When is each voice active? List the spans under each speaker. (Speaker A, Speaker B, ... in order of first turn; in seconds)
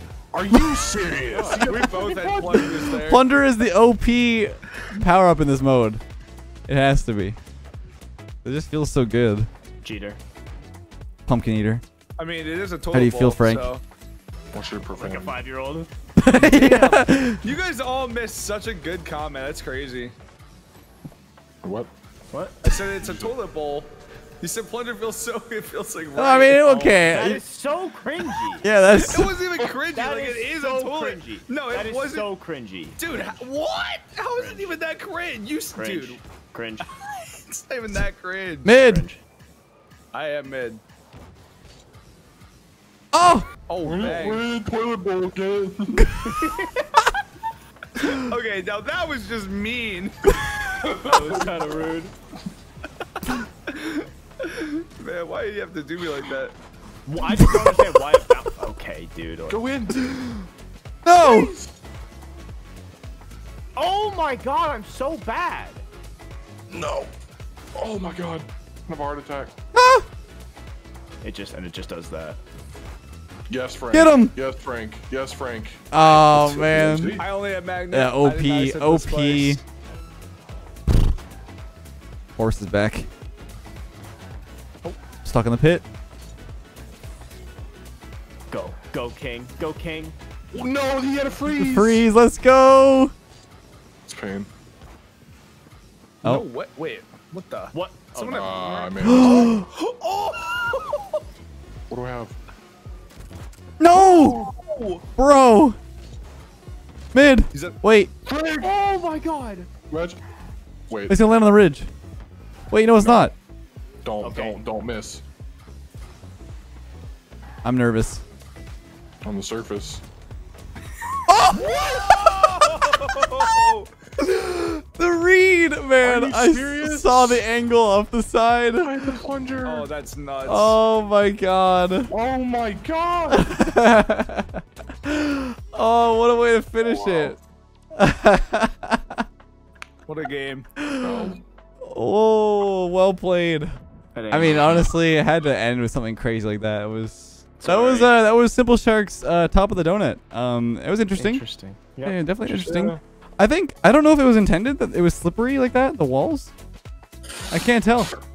Speaker A: 0.3-2.8, 14.5-15.4, 21.6-21.9, 23.0-23.3, 43.8-46.1, 50.8-51.6, 59.5-60.0, 61.1-61.7, 66.7-67.1, 67.7-69.5, 73.5-77.2, 90.5-92.0, 94.0-94.5, 98.3-99.6, 101.9-102.3, 108.2-108.8, 109.9-110.2, 110.9-111.2, 113.0-113.3, 114.0-115.2, 119.2-120.0, 121.5-122.1, 126.0-127.5, 128.8-129.9, 132.1-133.5, 136.8-137.3, 141.0-141.4, 152.4-153.0
Speaker B: 1.1-1.7, 9.8-10.2, 14.9-15.9, 22.3-22.6, 26.9-28.7, 29.9-33.0, 34.3-34.7, 35.7-36.9, 38.8-39.2, 46.2-46.8, 51.0-52.1, 57.1-59.6, 63.8-65.8, 71.2-72.4, 88.5-90.2, 97.7-99.0, 108.6-109.7, 114.2-114.6, 144.1-144.8, 147.6-148.0, 151.1-152.2
Speaker C: 1.5-3.3, 12.2-13.8, 16.4-20.1, 22.6-27.4, 28.9-32.3, 33.0-36.2, 36.8-38.7, 40.1-40.8, 43.7-44.5, 48.0-51.0, 53.7-56.5, 77.2-79.6, 96.2-101.2, 103.9-105.0, 107.5-107.8, 121.5-123.9, 129.6-130.8, 140.1-140.7, 147.7-148.1
Speaker D: 2.9-6.0, 6.7-7.4, 8.4-9.5, 11.3-11.8, 12.9-13.7, 16.2-17.4, 26.1-27.4, 28.6-29.3, 38.6-39.0, 43.1-43.5, 57.3-57.7, 61.0-61.5, 69.7-70.0, 73.9-74.3, 75.9-77.2, 77.9-79.6, 82.4-83.1, 85.2-85.8, 91.5-93.1, 99.0-99.6, 103.8-104.4, 105.2-105.8, 107.1-108.1, 111.1-111.9, 112.7-113.3, 117.6-118.2, 121.3-122.0, 124.2-129.2, 130.4-132.1, 133.3-137.4, 137.9-139.2, 140.8-141.3, 141.9-143.7, 144.3-151.4, 152.0-156.5, 157.5-158.1